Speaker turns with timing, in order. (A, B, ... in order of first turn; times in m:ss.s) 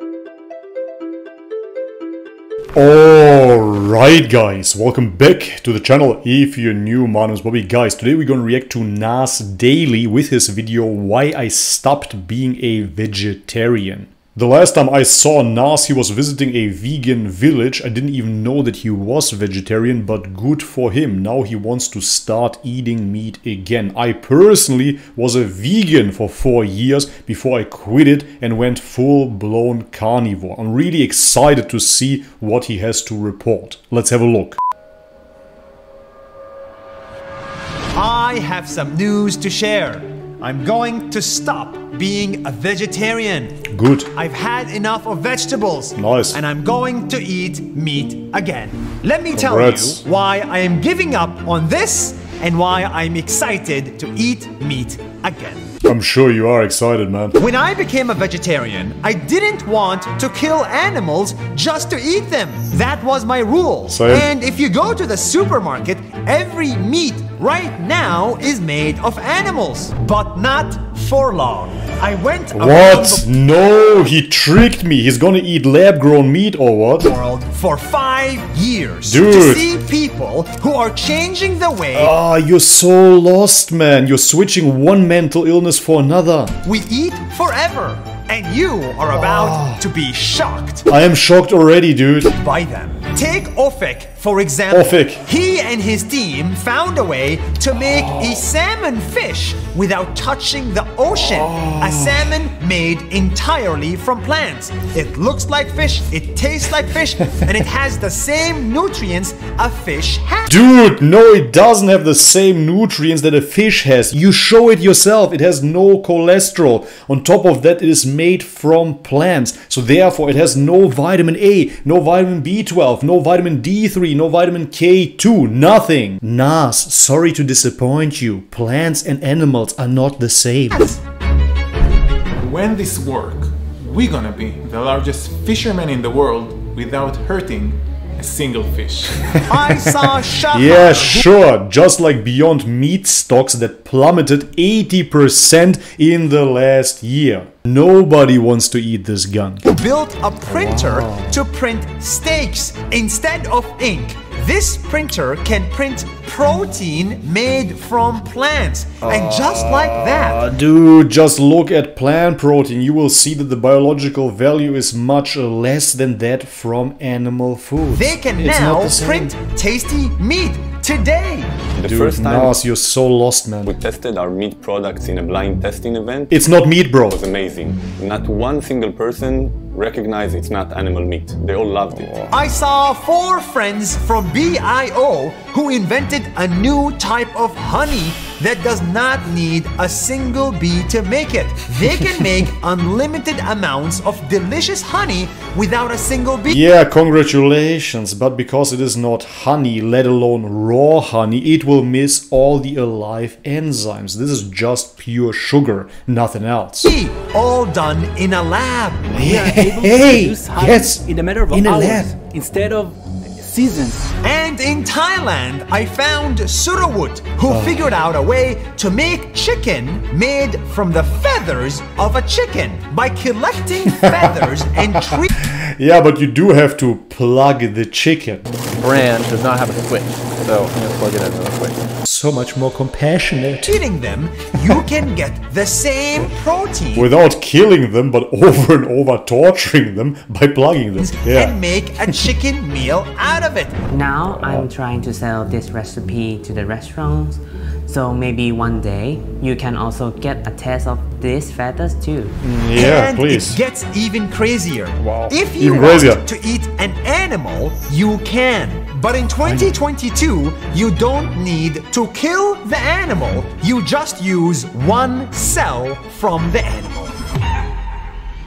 0:02.7-0:34.6 A
0:38.0-0:55.7 B
0:43.7-0:44.1 A
0:45.9-0:46.4 A
0:49.3-0:50.0 A
0:55.8-0:57.4 A
0:57.4-1:13.2 B
1:03.9-1:04.3 A
1:12.5-1:17.1 A
1:17.0-1:22.1 B
1:19.0-1:19.6 A
1:21.9-1:26.5 A
1:26.6-1:30.8 B
1:29.2-1:29.8 A
1:30.9-1:32.3 A
1:32.3-1:50.6 B
1:34.7-1:35.2 A
1:38.0-1:38.2 A
1:41.2-1:42.2 A
1:50.5-2:10.9 A
2:10.7-2:11.0 B
2:12.4-2:19.2 C
2:19.5-2:21.3 B
2:19.7-2:29.7 A
2:29.6-2:40.4 B
2:30.5-2:31.4 A
2:39.0-2:49.4 A
2:47.9-2:51.6 B
2:51.8-2:52.6 D
2:51.8-2:53.7 A
2:53.6-2:56.3 D
2:56.3-2:57.2 A
2:57.1-3:02.3 D
3:02.3-3:16.6 B
3:16.5-3:26.9 A
3:26.8-3:29.3 B
3:29.1-3:32.1 A
3:29.3-3:34.1 E
3:34.2-3:45.3 B
3:37.5-3:37.9 A
3:45.4-3:48.5 A
3:48.8-3:49.2 F
3:49.8-3:51.9 F
3:52.0-3:53.8 A
3:53.6-3:57.1 B
3:56.9-4:01.6 A
4:01.0-4:03.8 B
4:03.9-4:12.3 G
4:04.3-4:04.7 A
4:12.4-4:13.6 A
4:12.7-4:27.1 B
4:15.0-4:16.2 A